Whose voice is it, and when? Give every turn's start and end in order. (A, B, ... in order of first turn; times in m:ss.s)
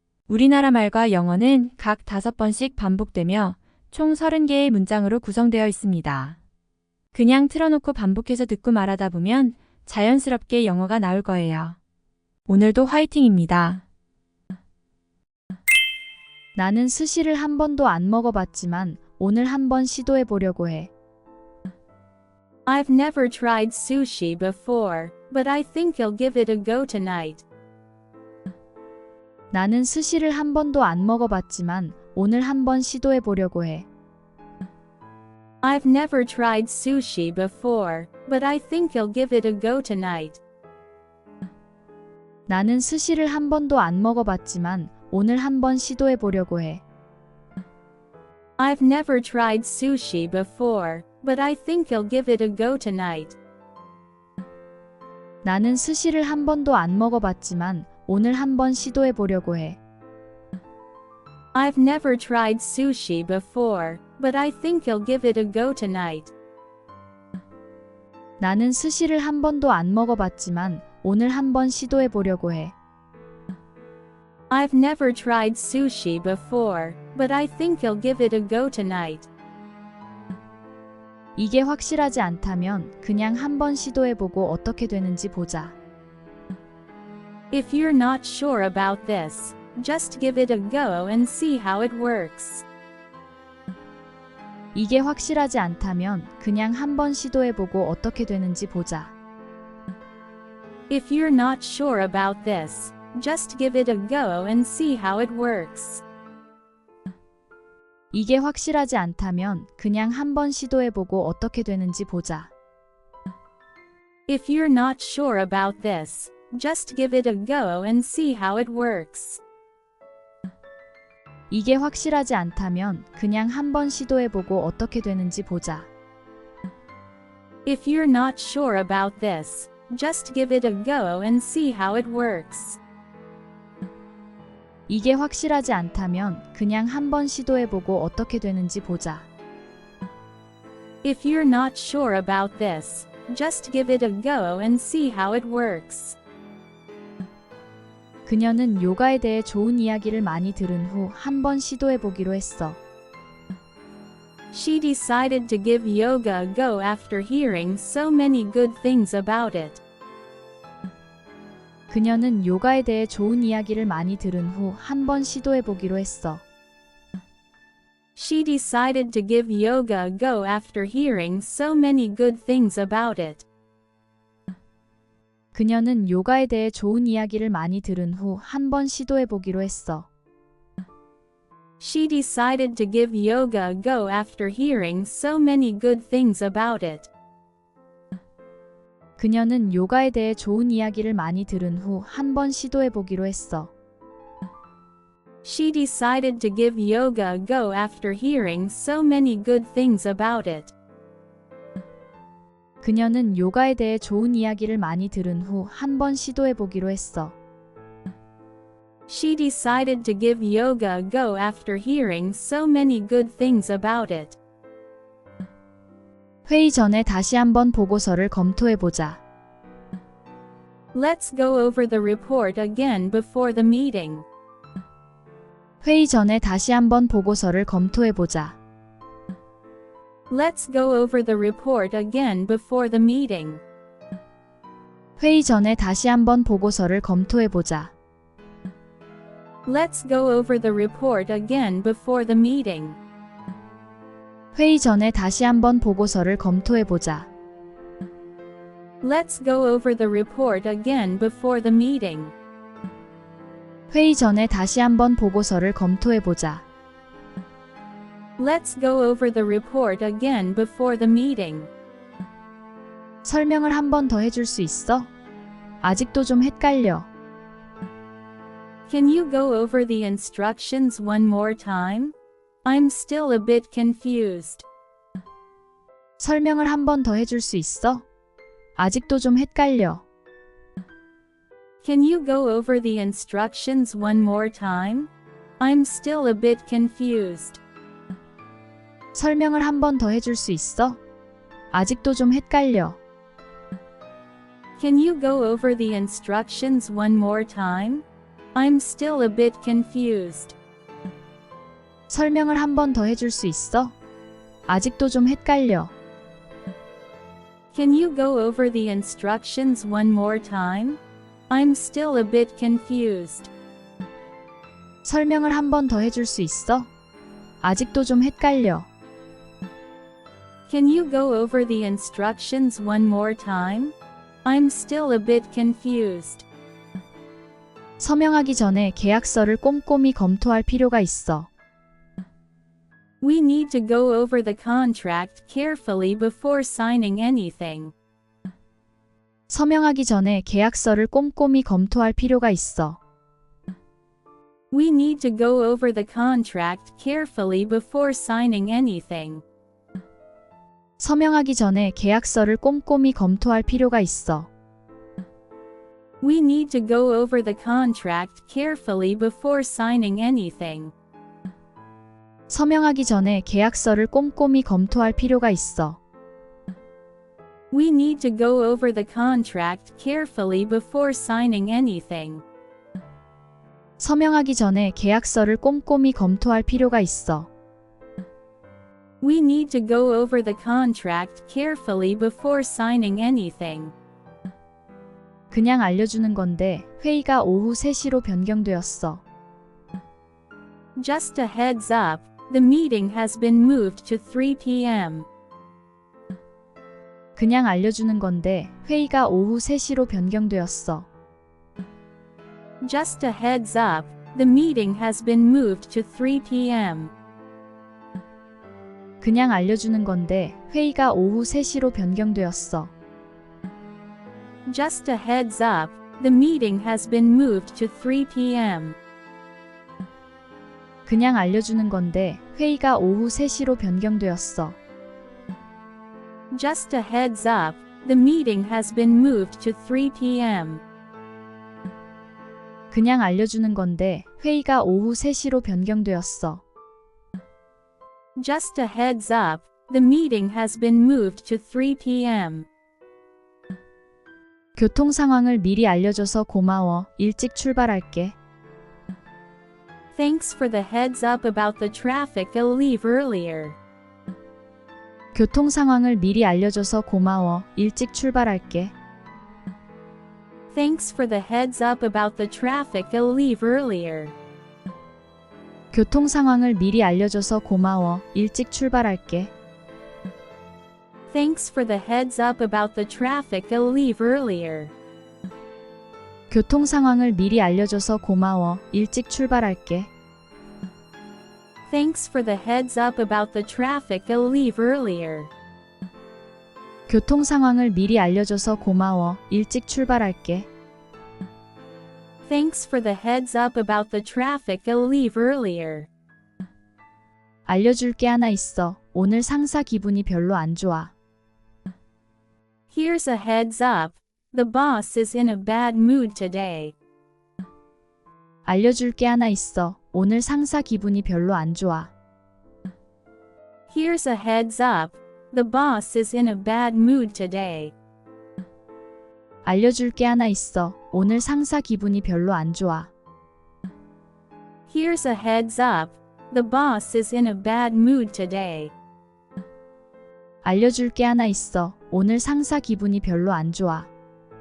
0:00.3-0:06.4 A
0:07.1-0:11.8 A
0:12.4-0:13.8 A
0:16.5-0:20.9 B
0:22.6-0:27.4 C
0:29.5-0:33.9 B
0:35.6-0:40.4 C
0:42.5-0:46.8 B
0:48.6-0:53.4 C
0:55.4-0:59.8 B
1:01.5-1:06.3 C
1:08.4-1:12.7 B
1:14.5-1:19.3 C
1:21.4-1:25.8 B
1:27.5-1:32.6 C
1:34.7-1:39.1 B
1:40.9-1:46.0 C
1:48.1-1:52.5 B
1:54.3-1:59.4 C
2:01.5-2:05.9 B
2:07.6-2:12.8 C
2:14.9-2:19.3 B
2:21.0-2:26.2 C
2:28.2-2:32.8 B
2:34.5-2:39.8 C
2:41.9-2:46.4 B
2:48.2-2:53.4 C
2:55.5-3:00.1 B
3:01.8-3:07.1 C
3:09.2-3:13.7 B
3:15.4-3:20.7 C
3:22.8-3:27.4 B
3:29.1-3:34.4 C
3:36.4-3:39.2 B
3:40.9-3:44.2 C
3:45.8-3:48.6 B
3:50.3-3:53.6 C
3:55.2-3:57.9 B
3:59.6-4:03.0 C
4:04.5-4:07.3 B
4:09.0-4:12.3 C
4:13.9-4:16.6 B
4:18.4-4:21.7 C
4:23.2-4:25.1 B
4:25.8-4:27.1 B
4:28.9-4:32.1 C
4:32.6-4:34.6 C
4:36.2-4:38.0 B
4:38.8-4:40.0 B
4:41.8-4:47.6 C
4:49.1-4:51.0 B
4:51.7-4:53.0 B
4:54.8-5:00.6 C
5:02.1-5:03.9 B
5:04.7-5:05.9 B
5:07.7-5:13.5 C
5:15.0-5:16.9 B
5:17.6-5:18.9 B
5:20.7-5:23.9 C
5:24.4-5:26.4 C
5:28.0-5:31.5 B
5:33.2-5:37.9 C
5:39.5-5:43.0 B
5:44.7-5:49.4 C
5:51.0-5:54.5 B
5:56.2-6:00.9 C
6:02.5-6:06.0 B
6:07.7-6:12.4 C
6:14.0-6:17.5 B
6:19.2-6:23.9 C
6:25.5-6:29.2 B
6:31.0-6:35.3 C
6:37.4-6:41.1 B
6:42.8-6:47.1 C
6:49.2-6:52.9 B
6:54.6-6:59.0 C
7:01.0-7:04.8 B
7:06.5-7:10.8 C
7:12.9-7:16.6 B
7:18.4-7:22.7 C
7:24.7-7:28.4 B
7:30.1-7:33.8 C
7:35.3-7:38.9 B
7:40.7-7:44.3 C
7:45.9-7:49.5 B
7:51.3-7:54.9 C
7:56.5-8:00.1 B
8:01.9-8:05.5 C
8:07.1-8:10.7 B
8:12.4-8:16.1 C
8:17.7-8:21.1 B
8:22.9-8:26.9 C
8:28.6-8:32.1 B
8:33.9-8:37.9 C
8:39.6-8:43.1 B
8:44.9-8:48.9 C
8:50.6-8:54.1 B